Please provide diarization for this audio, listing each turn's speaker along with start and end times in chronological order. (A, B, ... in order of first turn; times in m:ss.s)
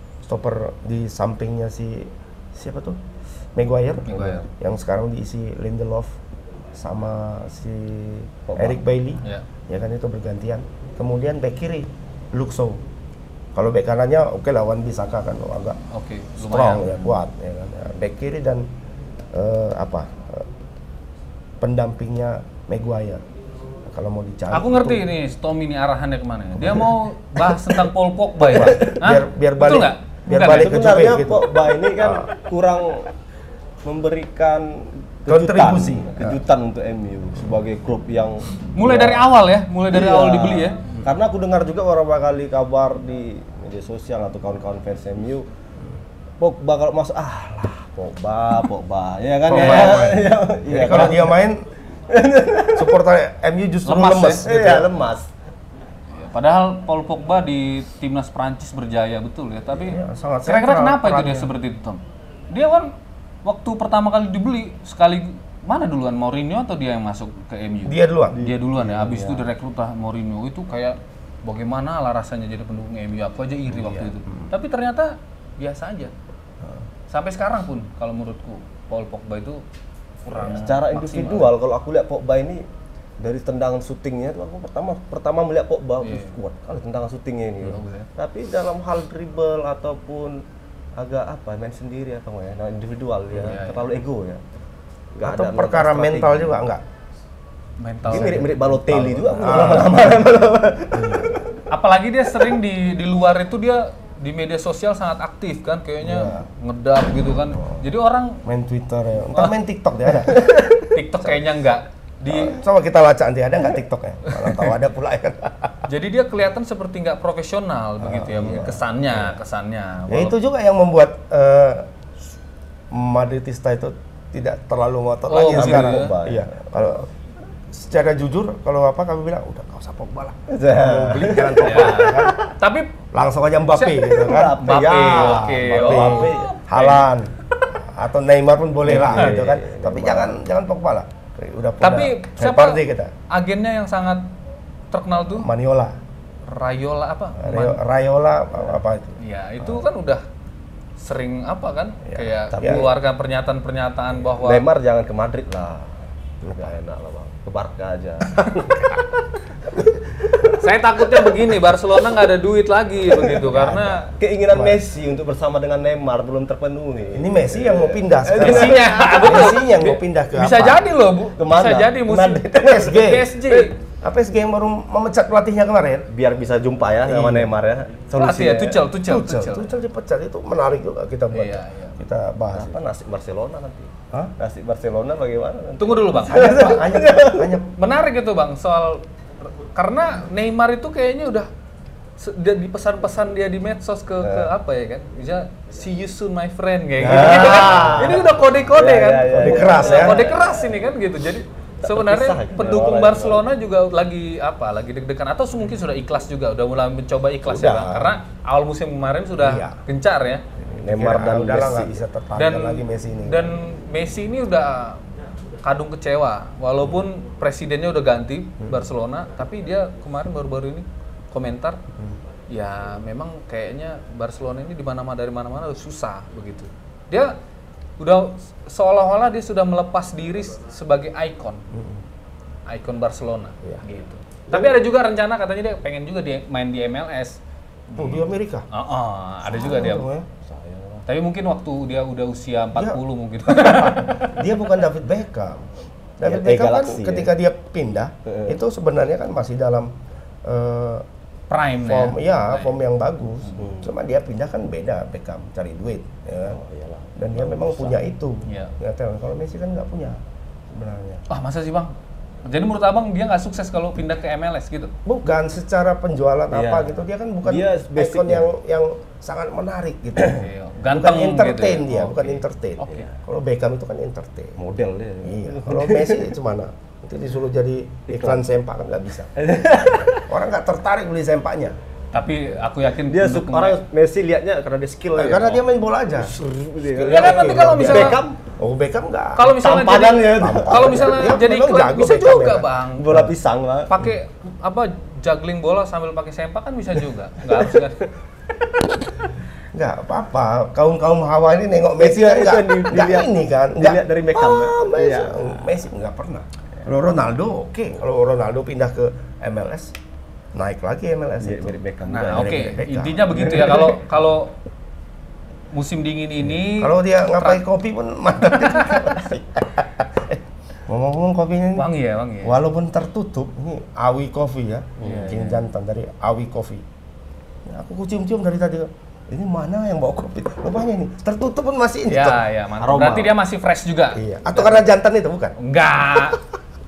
0:00.2-0:03.0 A
0:03.5-0:06.1 A
0:04.0-0:04.4 B
0:06.7-0:12.8 A
0:08.5-0:08.8 C
0:13.5-0:15.8 A
0:15.9-0:17.1 B
0:16.4-0:18.6 A
0:19.3-0:20.5 A
0:21.6-0:23.2 A
0:23.8-0:25.1 A
0:24.5-0:30.8 B
0:26.6-0:26.9 A
0:28.4-0:32.3 A
0:28.5-0:28.9 C
0:30.3-0:33.1 C
0:33.8-0:39.3 C
0:35.3-0:36.4 A
0:38.7-0:40.8 B
0:39.9-0:45.4 C
0:46.4-0:51.4 C
0:49.5-0:51.6 A
0:49.5-0:49.9 B
0:52.1-0:53.0 C
0:52.7-0:54.9 A
0:53.8-0:54.4 B
0:54.3-0:55.3 C
0:56.1-1:02.9 B
0:59.7-1:01.5 A
1:03.4-1:16.1 B
1:07.8-1:08.4 A
1:08.3-1:09.5 C
1:17.1-1:19.6 B
1:20.2-1:21.5 B
1:20.3-1:22.6 C
1:23.2-1:30.4 C
1:26.0-1:26.3 B
1:27.6-1:28.1 B
1:31.0-1:34.4 C
1:33.4-1:33.9 B
1:35.1-1:36.5 C
1:35.2-1:36.8 A
1:37.8-1:38.6 B
1:38.0-1:41.4 C
1:38.1-1:41.4 A
1:41.7-1:48.4 B
1:46.0-1:46.5 A
1:47.6-1:47.8 A
1:48.4-1:50.7 A
1:50.3-1:50.8 C
1:50.9-1:52.6 B
1:52.2-1:55.8 A
1:54.3-1:54.6 B
1:55.8-2:00.3 B
1:58.0-1:59.4 A
2:00.1-2:01.9 A
2:02.9-2:07.1 A
2:05.3-2:06.1 B
2:05.4-2:06.5 C
2:07.7-2:12.4 A
2:10.5-2:12.3 C
2:11.6-2:12.9 B
2:13.1-2:23.1 A
2:13.7-2:17.1 B
2:14.1-2:16.4 C
2:18.8-2:20.4 C
2:21.8-2:24.3 B
2:24.9-2:25.5 B
2:25.4-2:26.0 A
2:26.4-2:27.8 B
2:27.4-2:29.8 A
2:29.2-2:30.2 B
2:31.0-2:34.6 B
2:32.1-2:32.8 A
2:32.5-2:32.9 C
2:34.4-2:38.9 C
2:36.4-2:36.7 A
2:38.4-2:39.0 A
2:40.4-2:44.1 B
2:43.4-2:44.8 A
2:44.1-2:49.5 C
2:47.1-2:50.8 A
2:48.4-2:53.7 B
2:51.4-2:53.7 C
2:52.5-2:53.3 A
2:54.0-2:56.1 A
2:56.1-2:58.9 C
2:57.0-2:57.5 A
2:58.2-2:59.7 B
2:59.0-3:02.8 A
3:01.3-3:02.0 B
3:02.5-3:07.6 C
3:05.8-3:06.8 B
3:06.2-3:07.7 A
3:07.8-3:09.0 B
3:09.6-3:11.5 B
3:12.2-3:30.4 B
3:14.2-3:14.5 C
3:17.0-3:18.2 A
3:17.0-3:20.6 C
3:19.3-3:20.3 A
3:21.8-3:23.4 C
3:27.4-3:28.2 A
3:29.4-3:29.8 A
3:30.6-3:33.5 A
3:30.8-3:32.0 C
3:32.4-3:35.0 B
3:35.6-3:41.8 B
3:38.6-3:38.8 A
3:42.5-3:47.3 B
3:48.0-3:51.6 B
3:52.7-3:57.4 B
3:54.5-3:54.7 A
3:57.9-4:00.1 B
3:57.9-3:58.7 A
3:59.4-4:00.3 A
4:00.4-4:01.0 C
4:01.1-4:04.4 B
4:02.7-4:05.7 A
4:06.2-4:09.9 A
4:06.2-4:07.3 C
4:08.2-4:08.5 C
4:10.4-4:11.0 A
4:11.5-4:12.7 B
4:11.8-4:16.6 A
4:13.6-4:13.9 C
4:16.4-4:18.0 C
4:17.2-4:20.2 A
4:18.4-4:18.7 B
4:20.7-4:21.2 A
4:21.3-4:24.9 B
4:25.0-4:34.6 A
4:26.5-4:28.5 C
4:30.2-4:33.1 B
4:32.9-4:33.2 C
4:34.6-4:36.3 C
4:35.2-4:39.3 A
4:38.1-4:38.4 C
4:39.4-4:40.3 C
4:40.0-4:41.8 A
4:42.1-4:43.8 B
4:42.9-4:45.6 C
4:45.1-4:49.6 A
4:46.1-4:48.4 C
4:47.0-4:48.2 B
4:49.4-4:53.2 B
4:49.5-4:51.3 C
4:50.2-4:52.6 A
4:53.0-4:54.0 C
4:53.9-4:58.1 B
4:59.7-5:09.9 A
5:02.0-5:05.7 C
5:10.5-5:13.5 A
5:11.4-5:12.6 C
5:12.1-5:14.6 B
5:13.4-5:13.9 C
5:15.7-5:17.6 B
5:16.6-5:21.9 A
5:18.6-5:19.1 B
5:21.8-5:22.6 B
5:22.4-5:26.8 A
5:25.0-5:25.4 C
5:25.0-5:25.6 B
5:27.6-5:32.4 A
5:32.1-5:34.9 B
5:32.8-5:33.3 C
5:34.1-5:35.6 A
5:35.6-5:36.4 B